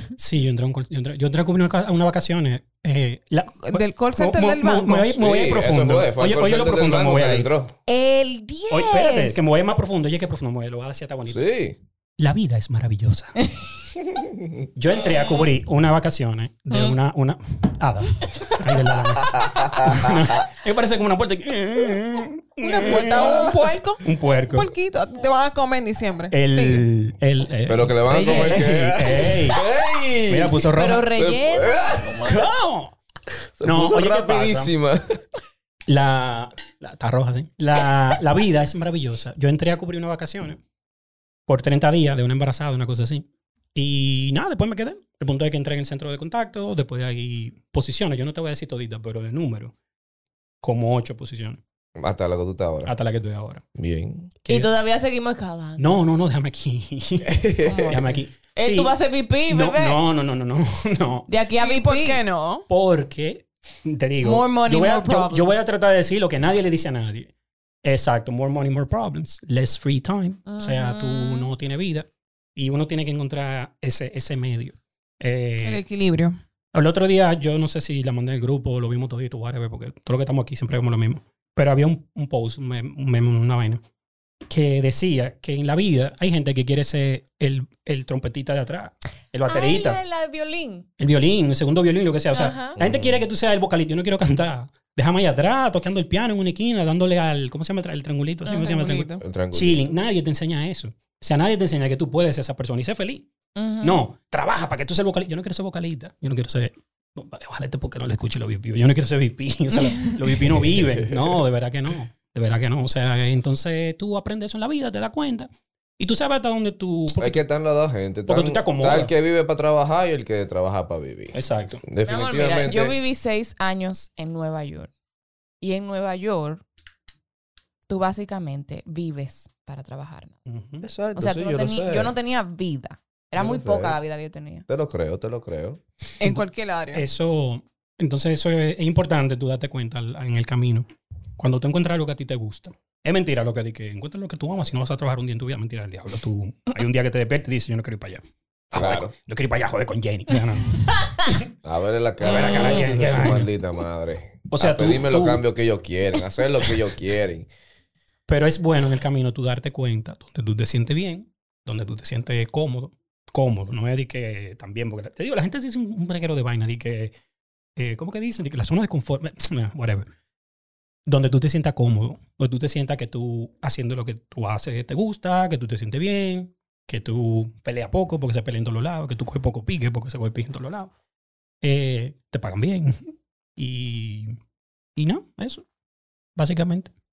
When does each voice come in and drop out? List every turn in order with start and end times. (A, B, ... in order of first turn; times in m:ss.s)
0:00.2-0:07.5 A
0:03.6-0:05.2 B
0:05.2-0:07.7 C
0:07.9-0:09.4 D
0:08.7-0:11.4 A
0:11.3-0:11.8 C
0:12.2-0:13.4 A
0:14.2-0:14.6 C
0:14.8-0:24.7 A
0:19.3-0:20.1 C
0:22.6-0:26.8 B
0:26.3-0:29.6 A
0:27.7-0:32.4 C
0:28.1-0:29.2 D
0:30.3-0:31.1 A
0:30.7-0:32.3 D
0:32.2-0:33.0 A
0:33.6-0:35.2 C
0:33.6-0:34.7 A
0:35.9-0:40.6 A
0:41.5-0:49.7 A
0:50.6-0:51.6 A
0:52.0-0:52.9 C
0:52.8-0:53.6 A
0:53.8-0:54.3 C
0:54.5-0:56.0 D
0:55.8-0:58.9 A
0:57.2-0:58.0 C
0:57.6-1:00.0 D
0:59.5-1:01.3 A
1:01.3-1:02.2 D
1:01.6-1:02.6 B
1:02.7-1:07.3 A
1:04.2-1:05.6 D
1:07.8-1:15.8 A
1:10.5-1:11.5 D
1:15.6-1:16.4 B
1:16.7-1:23.8 A
1:24.5-1:30.0 A
1:29.5-1:30.8 D
1:31.0-1:43.3 A
1:32.3-1:32.8 D
1:32.8-1:33.2 C
1:38.4-1:38.7 D
1:38.5-1:39.2 B
1:39.2-1:39.9 C
1:43.6-1:44.0 D
1:43.8-1:57.4 A
1:50.5-1:51.4 C
1:57.2-2:03.0 C
1:58.3-1:59.1 A
2:01.3-2:01.8 A
2:02.0-2:04.9 D
2:05.6-2:06.6 D
2:07.9-2:10.4 D
2:10.5-2:10.8 A
2:10.8-2:12.1 C
2:11.1-2:14.6 D
2:13.3-2:14.0 C
2:14.7-2:15.8 C
2:16.2-2:17.0 B
2:16.2-2:20.8 A
2:21.4-2:28.2 A
2:28.7-2:29.1 C
2:28.7-2:31.4 A
2:31.6-2:37.5 C
2:32.2-2:33.5 A
2:34.5-2:35.4 A
2:38.3-2:47.1 A
2:47.8-2:50.1 A
2:51.1-3:00.9 A
3:01.6-3:03.0 A
3:03.6-3:04.4 A
3:05.0-3:05.6 A
3:06.4-3:06.9 A